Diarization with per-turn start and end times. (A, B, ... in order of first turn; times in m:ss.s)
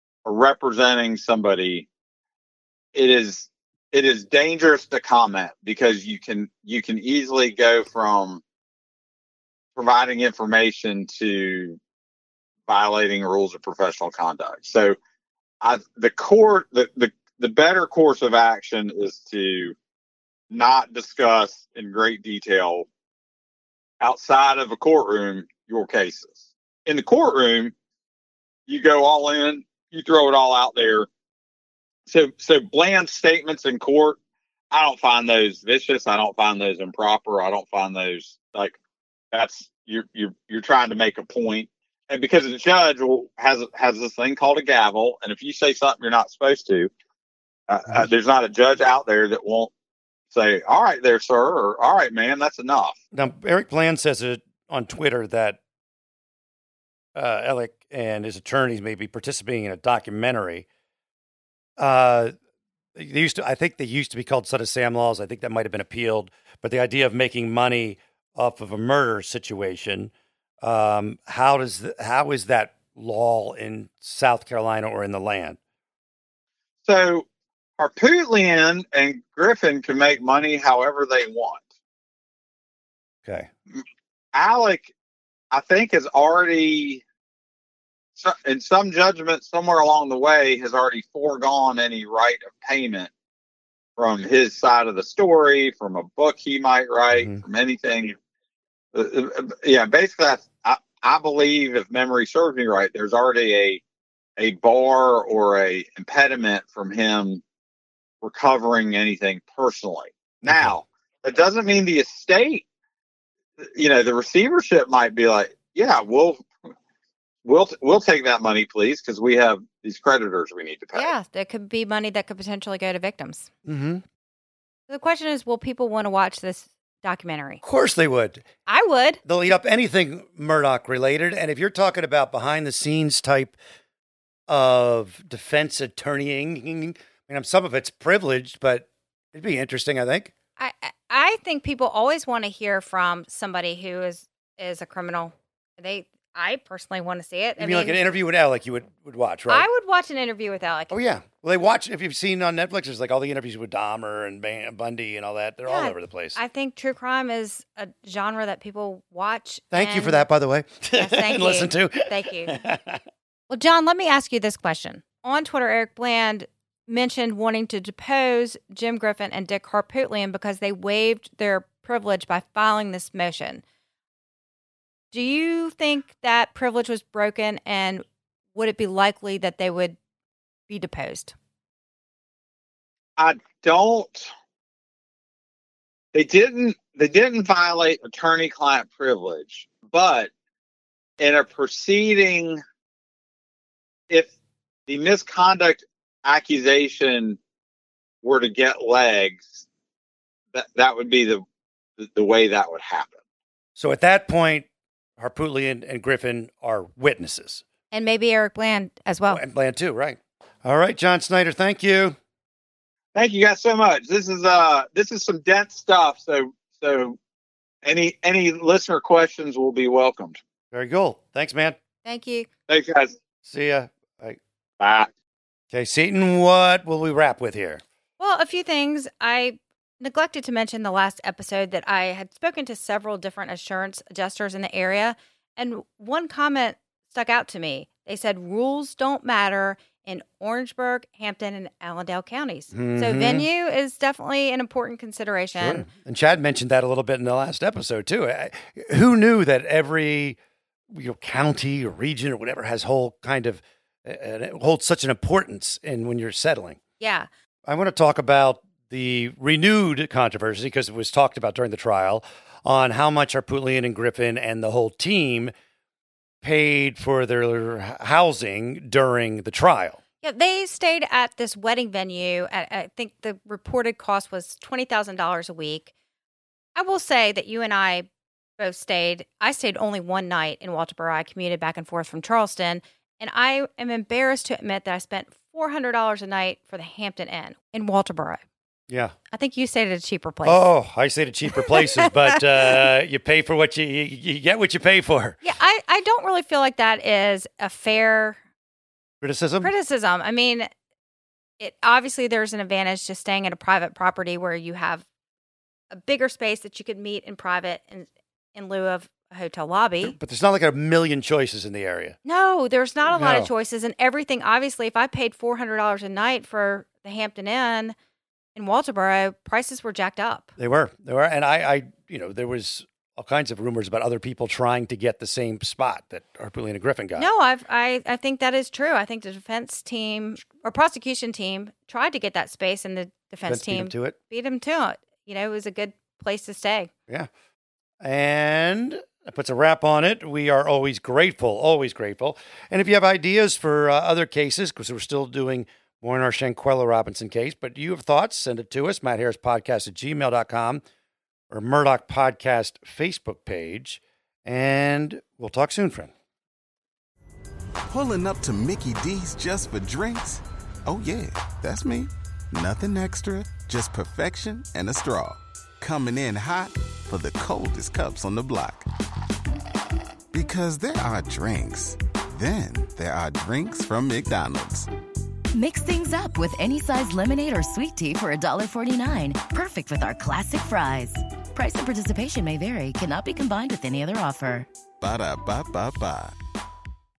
0:00.2-0:01.9 A
0:02.9-0:08.4 A
0:09.8-0:11.8 A
0:12.7-0:15.0 A
0:15.6-0:19.8 A
0:20.5-0:22.9 A
0:24.0-0:27.7 A
0:28.7-0:31.1 A
0:32.1-0:34.2 A
0:34.7-0:38.8 A
0:39.3-0:46.9 A
0:47.7-0:49.7 A
0:50.3-0:53.0 A
0:53.1-0:55.6 B
0:57.2-1:00.7 B
1:01.8-1:02.3 B
1:03.0-1:15.6 B
1:16.8-1:17.3 A
1:17.8-1:21.6 A
1:24.3-1:24.9 A
1:25.5-1:27.0 A
1:28.2-1:33.1 A
1:34.0-1:38.2 A
1:38.9-1:43.8 A
1:44.4-1:47.4 A
1:48.2-1:52.6 A
1:50.5-1:50.8 B
1:53.6-1:56.5 A
1:57.4-2:01.1 A
2:00.9-2:03.5 C
2:03.6-2:04.0 B
2:04.9-2:07.6 C
2:07.6-2:08.4 B
2:08.7-2:09.2 C
2:09.2-2:13.6 B
2:14.5-2:20.3 B
2:20.6-2:28.0 C
2:27.6-2:29.7 B
2:29.5-2:30.9 C
2:30.9-2:36.4 B
2:35.7-2:40.2 C
2:39.7-2:43.0 B
2:41.0-2:42.5 C
2:43.5-2:53.6 C
2:55.1-2:58.0 C
2:58.6-3:00.0 C
3:00.7-3:01.3 C
3:03.2-3:04.3 A
3:06.1-3:10.3 A
3:11.2-3:12.6 A
3:14.9-3:17.4 A
3:18.2-3:19.6 A
3:20.5-3:21.4 A
3:22.0-3:23.2 A
3:23.8-3:24.7 B
3:25.2-3:27.6 B
3:27.9-3:29.4 C
3:29.3-3:32.2 B
3:33.2-3:37.2 A
3:37.8-3:40.4 A
3:40.7-3:41.8 B
3:42.0-3:42.5 C
3:42.7-3:43.2 A
3:43.4-3:44.4 B
3:44.8-3:45.1 A
3:45.7-3:47.8 B
3:48.2-4:05.9 C
4:02.7-4:03.5 B
4:05.6-4:10.4 B
4:10.9-4:16.8 B
4:17.0-4:17.3 C
4:17.7-4:25.5 B
4:26.4-4:30.0 B
4:30.2-4:35.9 C
4:36.8-4:38.1 C
4:38.6-4:48.4 C
4:48.9-4:49.2 B
4:49.3-4:50.6 C
4:50.4-4:55.4 B
4:51.5-4:52.8 C
4:55.4-4:58.4 C
4:59.2-4:59.7 B
4:59.6-5:00.7 C
5:01.6-5:05.0 C
5:05.9-5:10.2 C
5:10.0-5:12.2 B
5:12.2-5:18.0 C
5:13.1-5:13.5 B
5:18.6-5:20.5 C
5:20.6-5:27.3 B
5:27.2-5:36.9 C
5:33.4-5:34.2 B
5:38.0-5:50.8 B
5:51.5-5:56.1 B
5:57.9-6:08.9 D
6:10.3-6:14.9 D
6:15.5-6:24.7 E
6:25.0-6:26.4 D